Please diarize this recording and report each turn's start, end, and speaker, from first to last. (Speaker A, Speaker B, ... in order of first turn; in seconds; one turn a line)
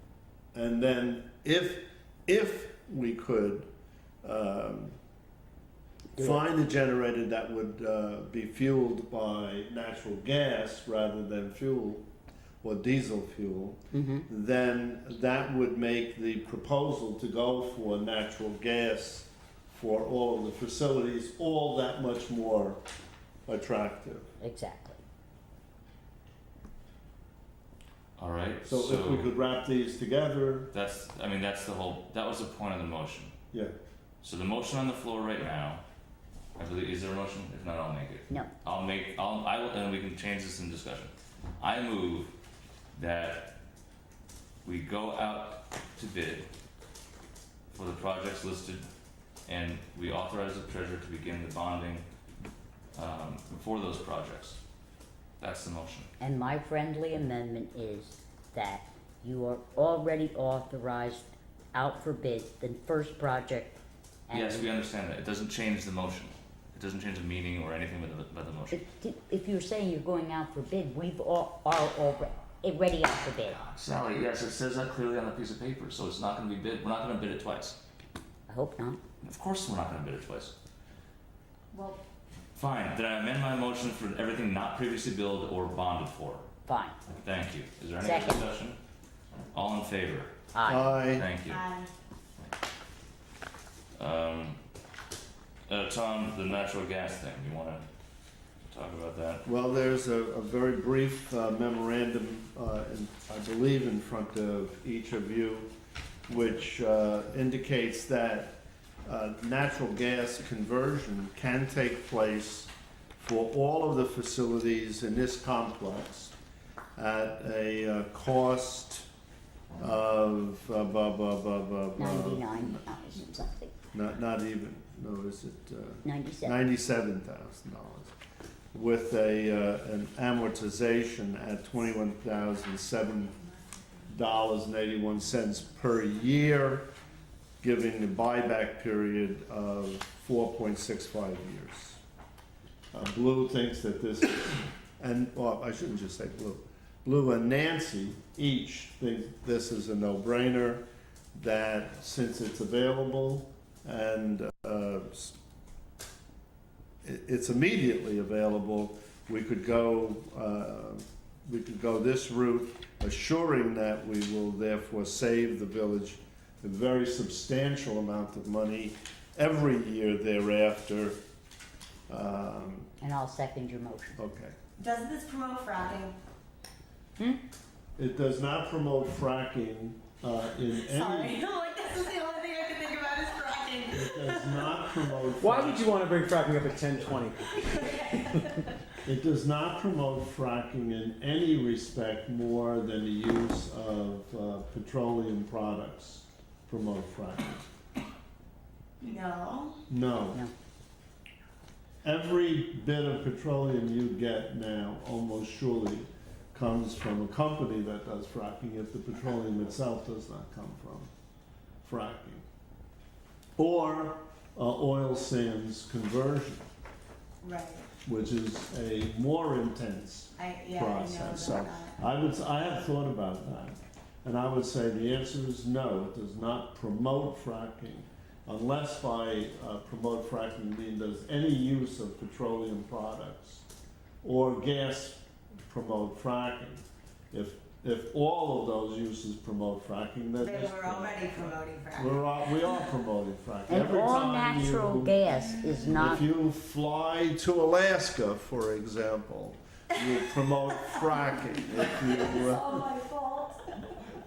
Speaker A: 0.5-3.7
Speaker A: 4.2-4.9
Speaker B: 6.2-6.4
Speaker A: 6.2-12.1
Speaker A: 12.6-22.8
Speaker B: 13.9-14.2
Speaker A: 23.5-24.3
Speaker B: 24.4-25.0
Speaker C: 28.2-29.3
Speaker A: 28.6-30.7
Speaker C: 30.7-33.3
Speaker C: 34.2-35.8
Speaker C: 36.6-42.3
Speaker C: 42.9-43.6
Speaker C: 44.6-46.5
Speaker C: 47.7-48.9
Speaker C: 49.5-52.0
Speaker C: 52.9-54.6
Speaker C: 55.4-56.1
Speaker B: 56.2-63.8
Speaker B: 64.3-64.7
Speaker C: 64.3-68.8
Speaker B: 68.7-73.6
Speaker C: 73.6-77.8
Speaker B: 78.5-79.0
Speaker C: 79.2-80.5
Speaker D: 81.7-82.0
Speaker C: 82.5-86.5
Speaker B: 86.7-87.0
Speaker C: 87.2-88.8
Speaker B: 88.0-88.4
Speaker C: 89.5-91.6
Speaker B: 90.5-91.0
Speaker A: 90.6-91.3
Speaker D: 91.4-91.9
Speaker C: 93.9-94.6
Speaker C: 95.7-97.9
Speaker C: 98.7-99.4
Speaker A: 99.4-105.7
Speaker A: 106.3-116.3
Speaker A: 117.0-119.1
Speaker A: 119.8-122.9
Speaker B: 122.0-123.7
Speaker A: 123.9-128.1
Speaker B: 126.0-126.5
Speaker A: 128.7-133.4
Speaker A: 134.1-136.9
Speaker A: 137.6-142.0
Speaker A: 142.9-155.3
Speaker A: 157.0-171.2
Speaker A: 172.1-172.9
Speaker B: 173.0-174.2
Speaker A: 174.2-174.6
Speaker D: 174.8-176.2
Speaker A: 178.0-181.4
Speaker D: 180.8-184.7
Speaker A: 183.9-185.9
Speaker E: 185.4-188.5
Speaker D: 187.9-188.3
Speaker A: 189.0-197.7
Speaker D: 199.0-199.8
Speaker A: 199.9-200.4
Speaker A: 202.0-211.1
Speaker A: 211.8-212.4
Speaker A: 213.6-216.7
Speaker D: 217.4-217.9
Speaker A: 218.0-233.7
Speaker D: 220.4-222.0
Speaker A: 234.2-245.2
Speaker D: 240.4-242.2
Speaker B: 243.7-246.2
Speaker A: 245.9-252.9
Speaker D: 252.3-253.9